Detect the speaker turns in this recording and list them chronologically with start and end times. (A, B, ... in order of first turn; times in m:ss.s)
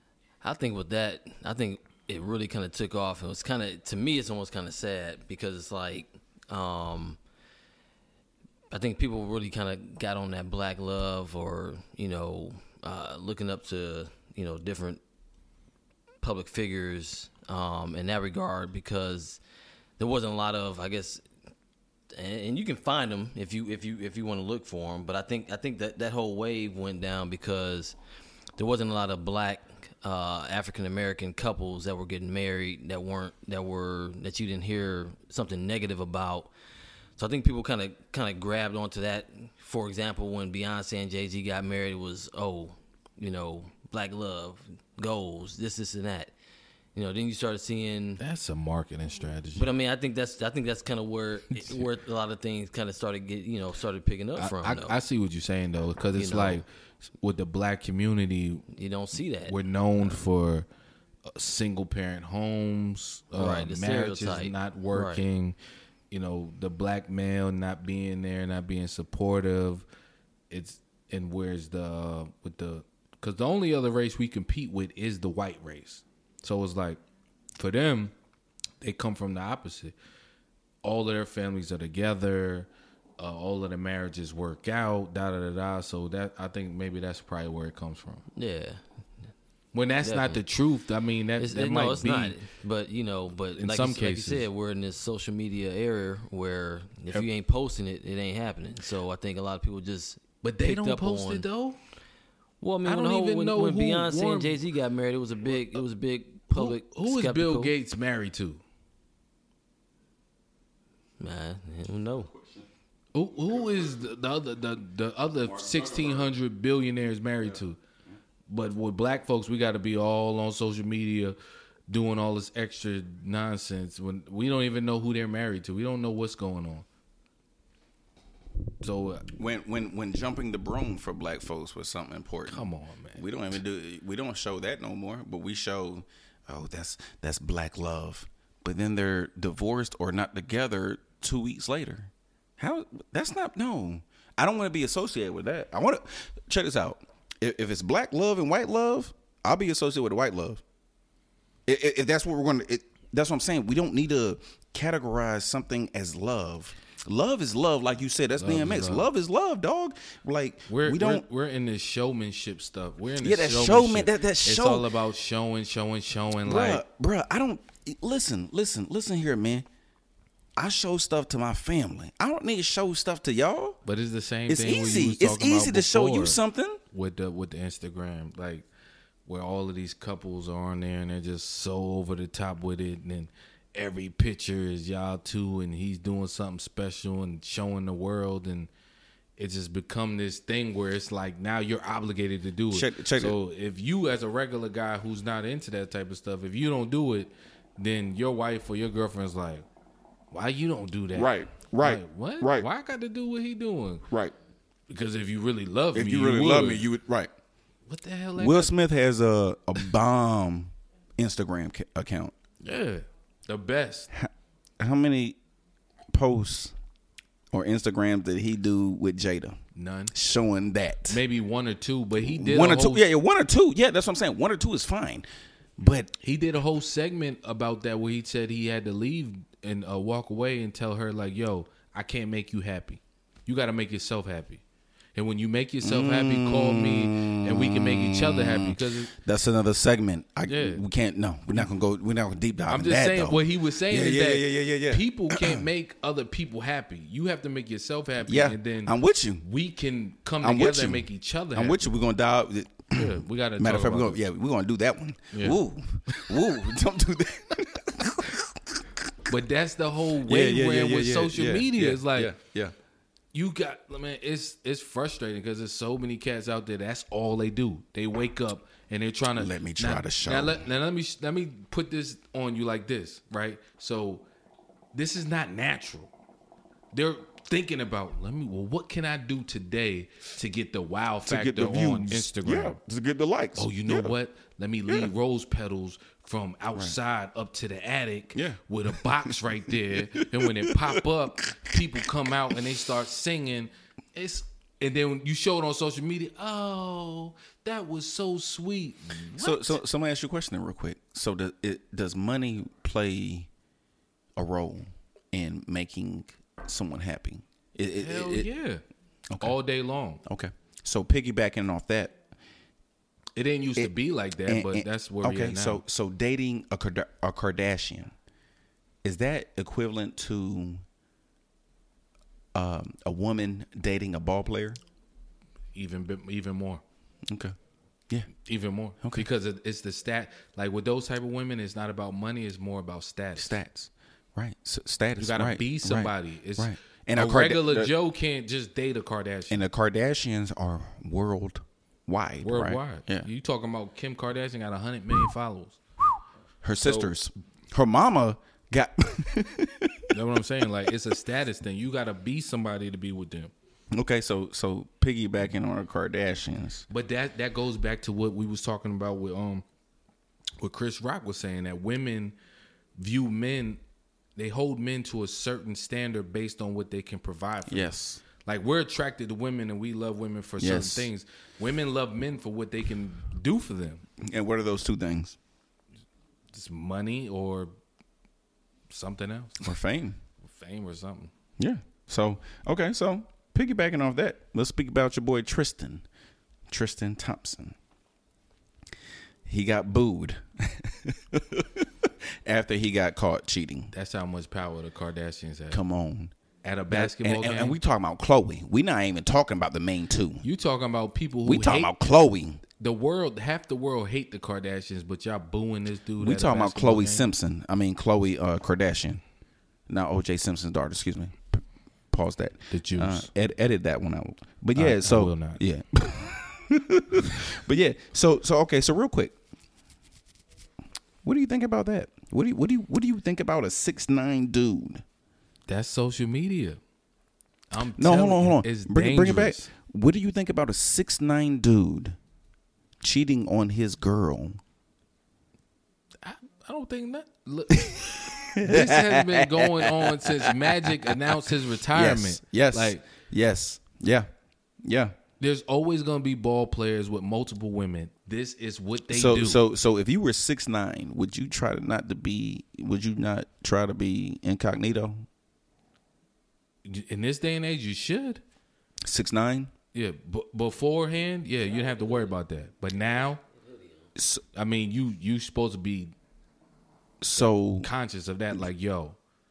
0:00.4-0:07.2 A
0:08.7-0:15.0 A
0:16.2-0:19.4 A
0:20.0-0:21.2 A
0:22.1-0:28.0 A
0:28.6-0:36.5 A
0:37.2-0:46.3 A
0:47.0-0:48.2 A
0:48.2-0:49.7 B
0:49.6-0:55.0 A
0:54.4-0:56.7 B
0:56.2-0:56.6 A
0:57.2-0:58.7 B
0:58.7-1:00.2 A
0:59.5-1:00.7 B
1:01.3-1:05.6 B
1:03.4-1:05.2 A
1:06.1-1:09.9 B
1:10.5-1:17.0 B
1:17.6-1:18.1 B
1:18.8-1:20.0 B
1:20.8-1:28.2 B
1:28.4-1:28.8 A
1:29.7-1:32.4 B
1:30.0-1:30.4 A
1:31.4-1:41.5 A
1:33.6-1:34.5 B
1:40.4-1:41.8 B
1:42.6-1:47.7 A
1:42.8-1:44.6 B
1:46.5-1:48.6 B
1:51.2-1:52.3 A
1:53.1-1:57.8 B
1:55.5-1:56.3 C
1:58.5-2:01.4 B
2:01.9-2:06.8 B
2:08.8-2:09.3 B
2:09.4-2:30.6 C
2:12.5-2:13.2 B
2:31.7-2:41.3 C
2:38.4-2:39.1 B
2:40.7-2:46.8 B
2:43.2-2:44.9 C
2:46.4-2:49.7 C
2:50.6-2:53.8 C
2:53.8-2:56.4 B
2:54.5-2:56.8 C
2:56.9-2:58.7 B
2:59.3-3:08.7 B
3:09.4-3:19.6 B
3:12.7-3:13.4 C
3:20.3-3:24.1 B
3:21.2-3:22.7 C
3:24.1-3:24.3 C
3:24.9-3:26.9 B
3:25.9-3:27.3 C
3:27.9-3:28.7 B
3:28.4-3:32.3 C
3:32.6-3:34.1 B
3:34.1-3:35.4 C
3:36.1-3:36.8 C
3:37.5-3:39.6 C
3:39.8-3:40.2 B
3:40.1-3:41.2 C
3:41.1-3:43.0 B
3:42.2-3:45.3 C
3:45.8-3:46.1 C
3:46.2-3:54.6 B
3:55.2-3:59.1 B
3:55.8-4:05.7 C
4:00.5-4:00.8 B
4:02.7-4:11.9 B
4:08.2-4:09.4 C
4:10.4-4:19.0 C
4:12.9-4:14.2 B
4:15.3-4:16.4 B
4:19.3-4:22.3 B
4:20.3-4:22.8 C
4:23.3-4:34.3 B
4:29.4-4:30.6 C
4:34.9-4:36.1 B
4:36.9-4:42.8 B
4:41.3-4:44.1 C
4:43.6-4:59.8 B
4:48.4-4:51.7 C
4:59.4-5:03.5 C
5:04.4-5:08.5 C
5:08.0-5:08.8 B
5:09.3-5:09.6 C
5:09.4-5:10.2 B
5:10.2-5:12.2 C
5:13.4-5:15.8 B
5:13.8-5:18.1 C
5:19.0-5:20.8 C
5:22.6-5:24.8 C
5:25.8-5:26.8 B
5:27.3-5:27.6 C
5:28.4-5:33.6 B
5:33.4-5:37.9 C
5:35.2-5:39.6 B
5:39.5-5:43.3 C
5:42.4-5:45.8 B
5:46.6-5:50.1 C
5:46.8-5:47.1 B
5:50.1-5:53.5 B
5:53.9-5:56.8 C
5:56.9-5:59.6 B
6:00.6-6:02.4 B
6:03.0-6:03.8 B
6:04.4-6:14.1 B
6:07.7-6:08.2 C
6:10.6-6:11.1 C
6:14.2-6:15.4 C
6:16.5-6:17.7 B
6:18.9-6:19.7 B
6:19.6-6:20.2 C
6:20.4-6:21.3 B
6:21.6-6:26.0 C
6:26.7-6:27.8 C
6:29.5-6:33.9 C
6:33.9-6:35.8 B
6:35.7-6:36.3 C
6:36.6-6:37.8 B
6:36.9-6:40.4 C
6:40.4-6:41.9 B
6:41.4-6:42.6 C
6:42.8-6:47.2 B
6:46.2-6:49.2 C
6:49.9-6:59.4 C
6:52.7-6:53.3 B
6:54.8-6:55.6 B
7:01.2-7:05.0 C
7:05.7-7:06.8 B
7:07.7-7:09.7 B
7:08.0-7:12.2 C
7:13.0-7:14.6 C
7:16.2-7:23.1 B
7:17.7-7:24.3 C
7:24.8-7:25.2 C
7:25.4-7:29.6 B
7:29.1-7:35.3 C
7:36.8-7:38.4 B
7:39.1-7:39.7 C
7:39.9-7:43.4 B
7:43.6-7:43.9 A
7:44.2-7:44.4 C
7:44.5-7:46.1 B
7:47.2-7:47.9 C
7:47.4-7:49.2 B